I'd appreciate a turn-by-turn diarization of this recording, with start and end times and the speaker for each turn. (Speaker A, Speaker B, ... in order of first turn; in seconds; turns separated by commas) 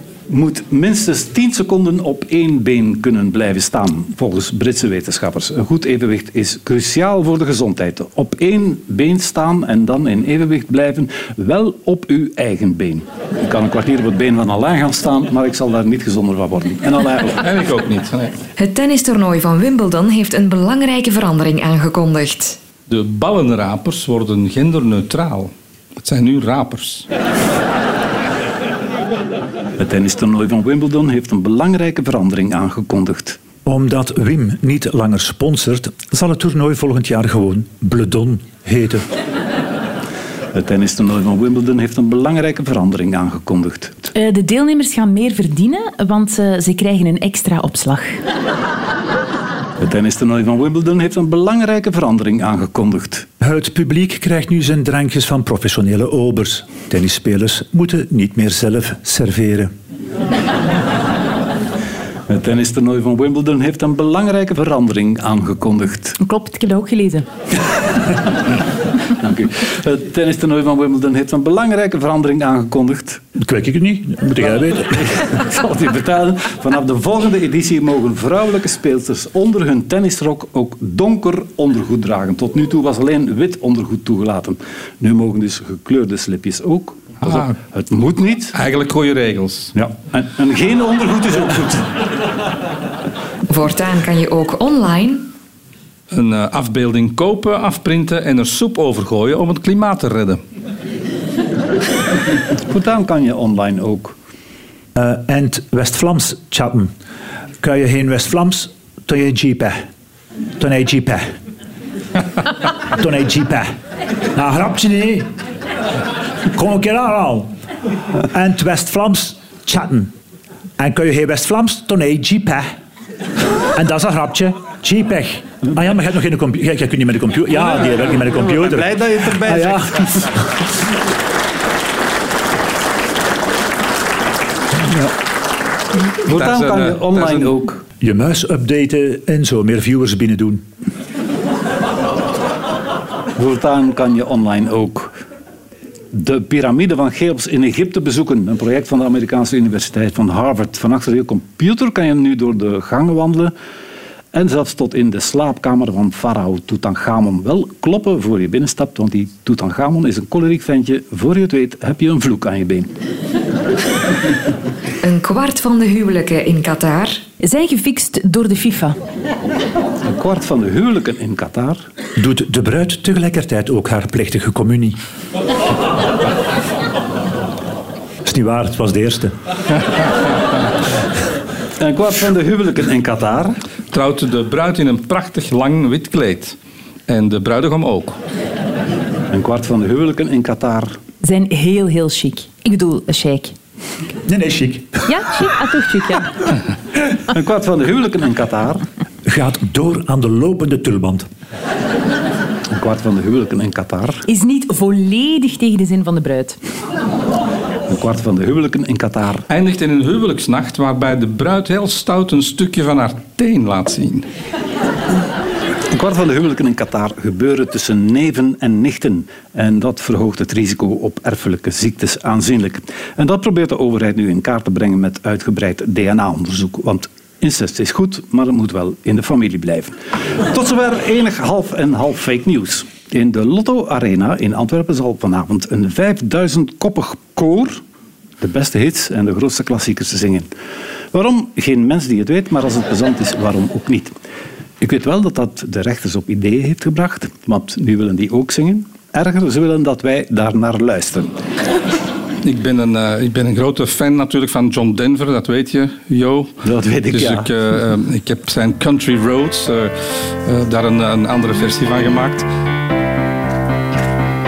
Speaker A: 0.3-17.4, Speaker B: 17.4-18.4, Speaker C: 18.6-22.6, Speaker B: 22.9-27.1, Speaker A: 29.8-33.4, Speaker D: 33.6-39.0, Speaker A: 40.5-44.1, Speaker E: 44.1-48.2, Speaker A: 49.8-53.3, Speaker D: 53.4-59.7, Speaker A: 62.3-66.2, Speaker E: 66.2-67.2, Speaker A: 69.2-73.2, Speaker D: 73.4-75.2, Speaker A: 74.9-88.5, Speaker B: 87.2-87.5, Speaker B: 88.5-89.7, Speaker A: 89.8-92.0, Speaker C: 93.5-95.3, Speaker B: 96.1-100.4, Speaker A: 102.7-104.2, Speaker D: 105.0-106.9, Speaker D: 107.6-109.9, Speaker D: 110.6-111.4, Speaker D: 112.9-113.8, Speaker D: 114.3-115.3, Speaker D: 116.5-117.5, Speaker D: 118.3-120.1, Speaker D: 120.8-122.7, Speaker D: 123.7-130.4, Speaker A: 127.7-130.3, Speaker D: 134.8-135.1, Speaker A: 136.2-137.8, Speaker B: 136.3-137.5, Speaker D: 138.0-140.7, Speaker A: 143.4-145.1, Speaker A: 146.1-153.5, Speaker A: 154.3-162.9, Speaker C: 165.0-167.2, Speaker E: 167.4-169.0, Speaker A: 170.0-171.8, Speaker D: 172.2-175.0, Speaker D: 178.2-179.3, Speaker A: 181.8-183.6, Speaker B: 183.9-186.6, Speaker B: 187.1-188.2, Speaker A: 189.3-190.9, Speaker E: 191.2-193.5, Speaker D: 194.2-195.1, Speaker E: 195.1-196.3, Speaker A: 197.3-198.8, Speaker D: 199.2-201.3, Speaker A: 202.7-204.2, Speaker E: 204.2-206.6, Speaker A: 207.9-209.4, Speaker B: 209.5-214.2, Speaker A: 215.9-237.8, Speaker A: 238.4-240.5, Speaker A: 241.1-244.1, Speaker A: 244.8-251.3, Speaker B: 252.4-256.5, Speaker A: 256.6-257.5, Speaker B: 257.1-262.5